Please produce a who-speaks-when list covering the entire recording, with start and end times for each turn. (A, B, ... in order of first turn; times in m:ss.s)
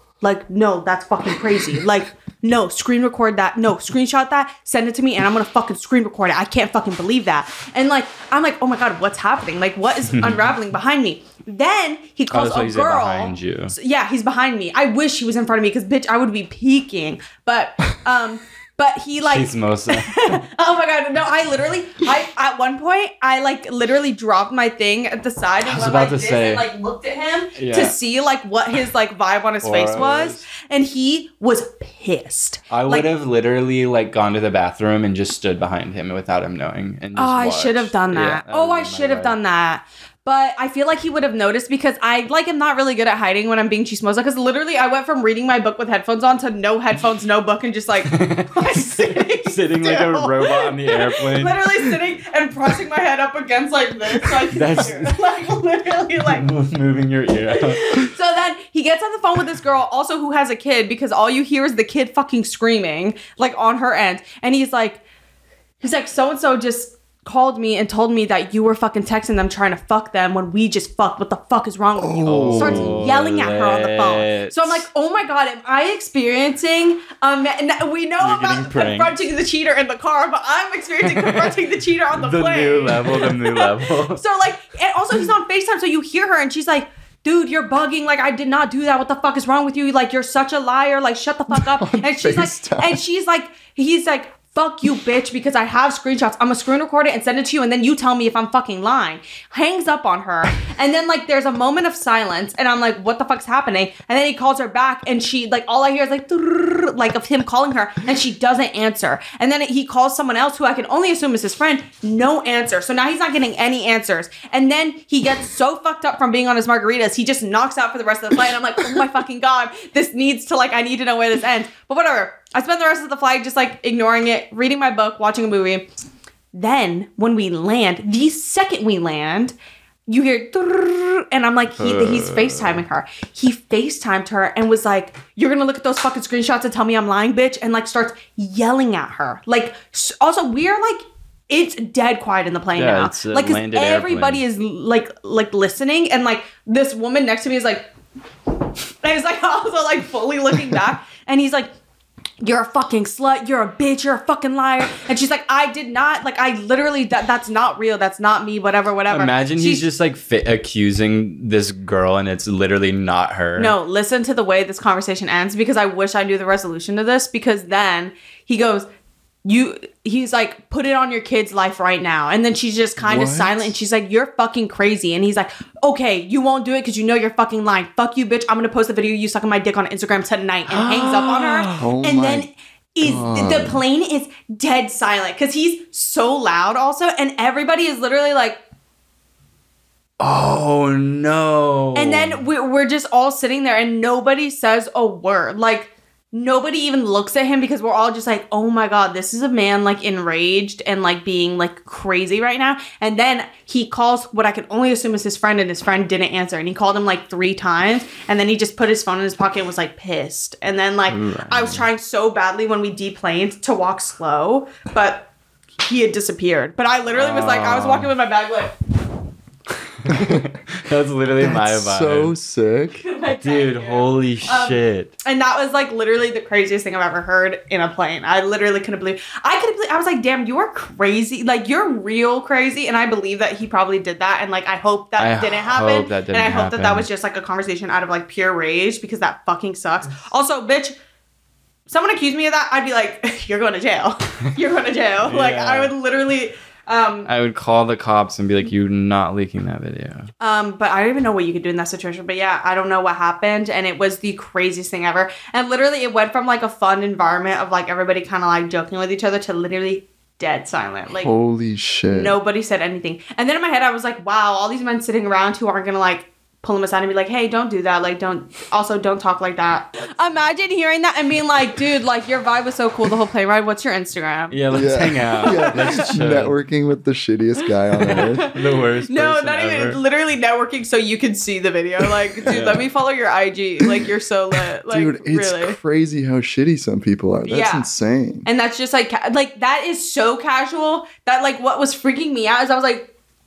0:00.2-0:33.1 A
0:10.1-0:10.5 B
0:12.3-0:13.7 B
0:19.2-0:20.4 B
0:25.6-0:26.7 B
0:27.6-0:27.9 B
0:29.6-0:30.4 B
0:32.7-0:39.4 B
0:37.2-0:56.5 A
0:48.1-0:51.6 B
0:54.5-0:55.2 B
0:56.3-0:58.1 B
0:57.5-1:05.0 A
1:05.8-2:05.9 A
1:12.0-1:13.0 C
1:12.2-1:14.8 B
1:18.2-1:19.1 B
1:21.0-1:21.6 B
1:22.1-1:24.2 B
1:31.5-1:33.0 C
2:06.5-2:09.5 A
2:10.1-2:27.9 A
2:11.8-2:12.8 B
2:22.7-2:24.4 B
2:29.0-2:31.7 A
2:32.4-2:39.8 A
2:39.1-2:43.7 B
2:43.6-2:48.9 A
2:49.4-3:08.6 A
2:53.0-2:53.7 C
3:00.7-3:01.9 B
3:01.8-3:02.5 C
3:03.0-3:03.8 C
3:10.2-3:12.4 B
3:11.9-3:35.3 A
3:31.1-3:31.9 B
3:35.8-3:38.7 A
3:37.1-3:38.1 B
3:40.0-3:42.3 B
3:40.1-3:40.4 C
3:41.4-3:43.0 C
3:43.0-4:01.0 A
3:43.2-3:45.1 B
3:55.2-3:57.1 B
4:01.9-4:07.3 A
4:05.2-4:05.9 B
4:07.2-4:10.3 B
4:10.4-4:21.3 A
4:21.2-4:22.3 C
4:22.1-4:34.6 A
4:34.5-4:36.6 B
4:34.7-4:38.5 C
4:35.4-4:36.0 A
4:38.0-4:45.8 A
4:38.1-4:40.0 B
4:42.4-4:42.8 B
4:44.9-4:48.5 C
4:47.5-4:47.9 A
4:48.4-4:53.1 A